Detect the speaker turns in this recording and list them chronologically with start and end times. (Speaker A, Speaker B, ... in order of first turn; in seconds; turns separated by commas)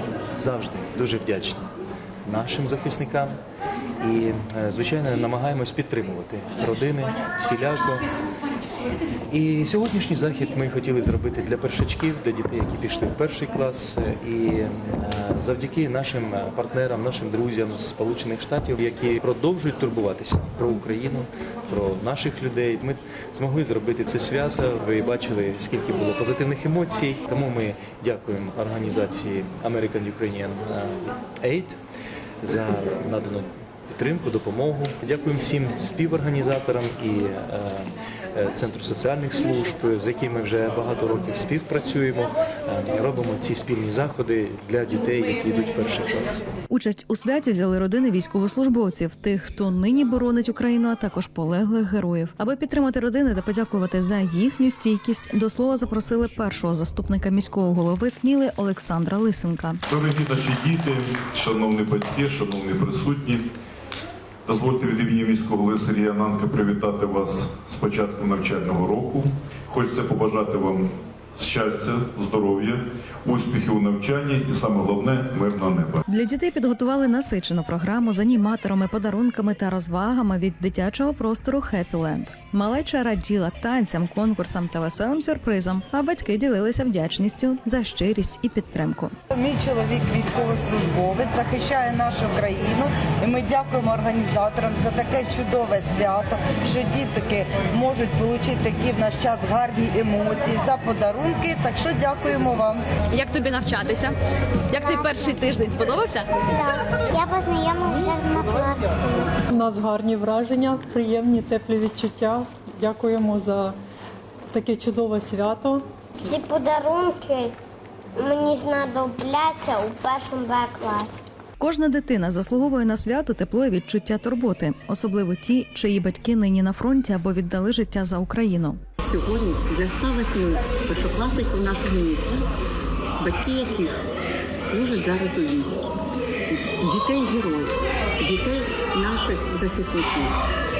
Speaker A: 0.3-1.6, Speaker A: 2.2-3.4, Speaker A: 4.0-8.1, Speaker A: 9.3-31.8, Speaker A: 32.4-46.4, Speaker B: 46.7-59.8, Speaker C: 59.9-63.4, Speaker C: 64.5-76.0, Speaker B: 76.1-89.1, Speaker D: 89.3-102.8, Speaker E: 103.2-104.1, Speaker F: 104.8-105.5, Speaker E: 105.0-106.3, Speaker F: 106.5-109.3, Speaker G: 109.5-113.7, Speaker G: 114.5-115.8, Speaker F: 116.2-117.5, Speaker F: 118.2-121.2, Speaker B: 121.6-128.8, Speaker H: 129.0-132.5, Speaker H: 133.2-134.1, Speaker H: 134.6-140.4